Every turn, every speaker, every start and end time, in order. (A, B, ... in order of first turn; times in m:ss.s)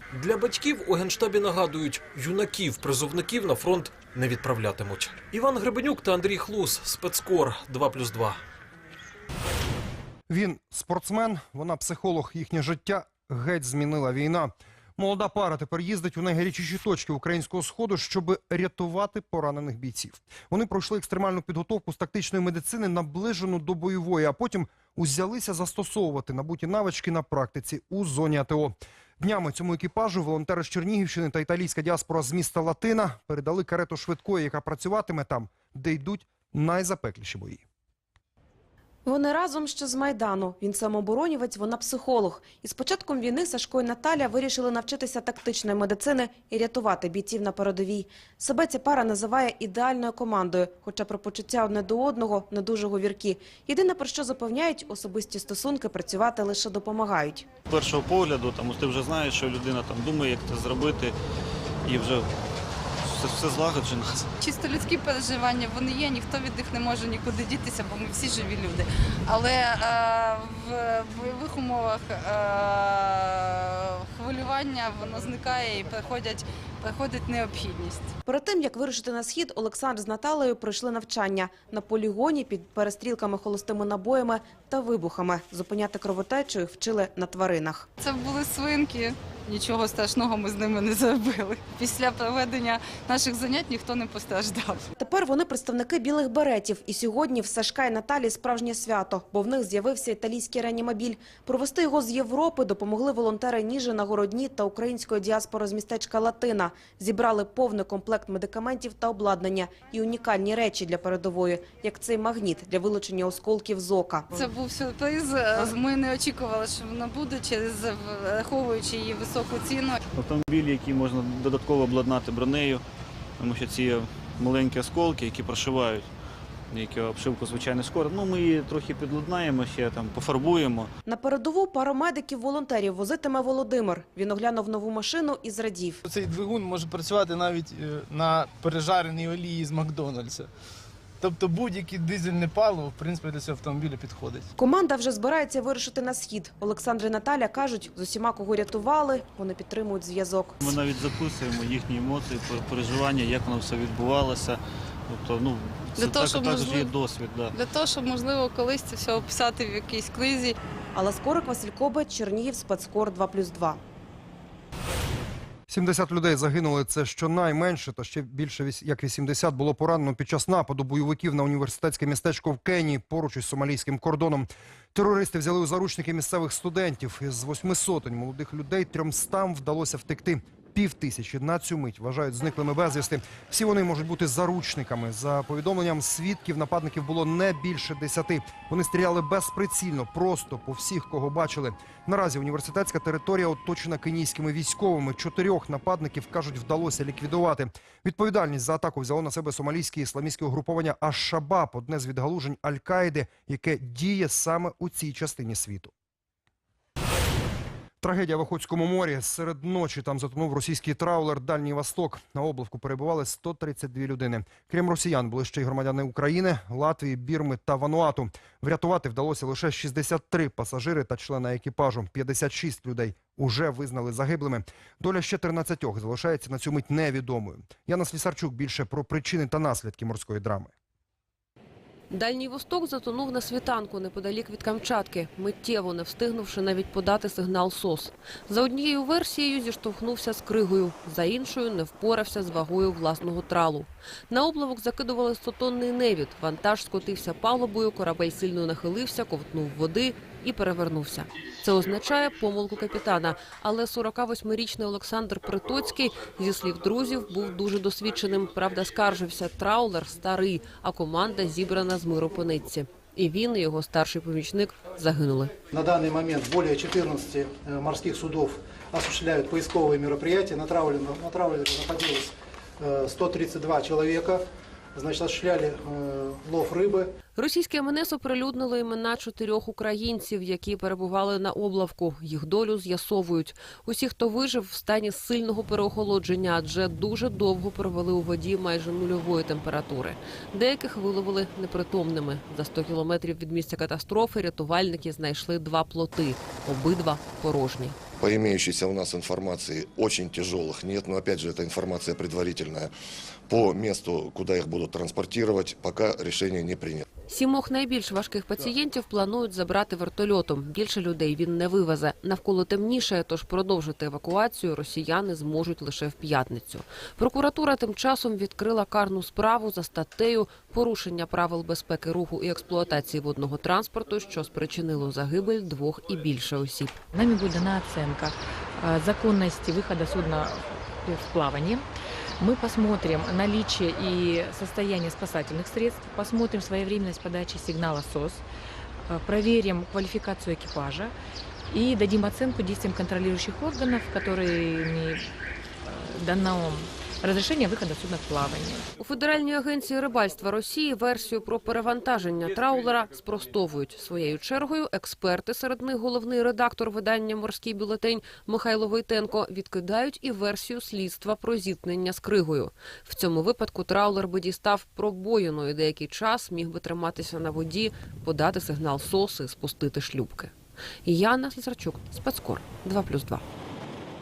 0:00.1-0:08.4 A
0:10.3-0:37.6 B
0:39.1-0:57.5 C
0:57.7-1:01.1 D
1:01.8-1:02.3 D
1:03.0-1:04.3 D
1:04.4-1:18.1 E
1:18.3-1:27.9 C
1:28.0-1:34.9 E
1:35.0-1:54.5 C
1:54.3-2:00.0 E
2:00.1-2:02.8 D
2:03.4-2:06.1 D
2:06.7-2:10.9 D
2:11.1-2:16.0 C
2:16.2-2:20.5 F
2:21.3-2:24.4 F
2:24.6-2:30.6 C
2:30.6-2:37.5 D
2:36.0-2:36.9 E
2:37.5-2:40.6 E
2:41.0-2:43.8 C
2:45.7-3:25.9 B
3:28.0-3:50.7 B
3:52.1-4:25.6 G
4:25.8-4:28.5 H
4:29.1-4:32.3 H
4:33.0-4:34.4 H
4:35.1-4:37.1 H
4:37.4-4:58.0 G
4:58.2-5:02.9 I
5:03.5-5:07.0 I
5:07.3-5:27.0 G
5:27.1-5:31.8 J
5:32.4-5:38.4 J
5:39.0-5:41.1 J
5:41.7-5:45.3 J
5:45.9-5:48.9 J
5:49.0-6:13.4 G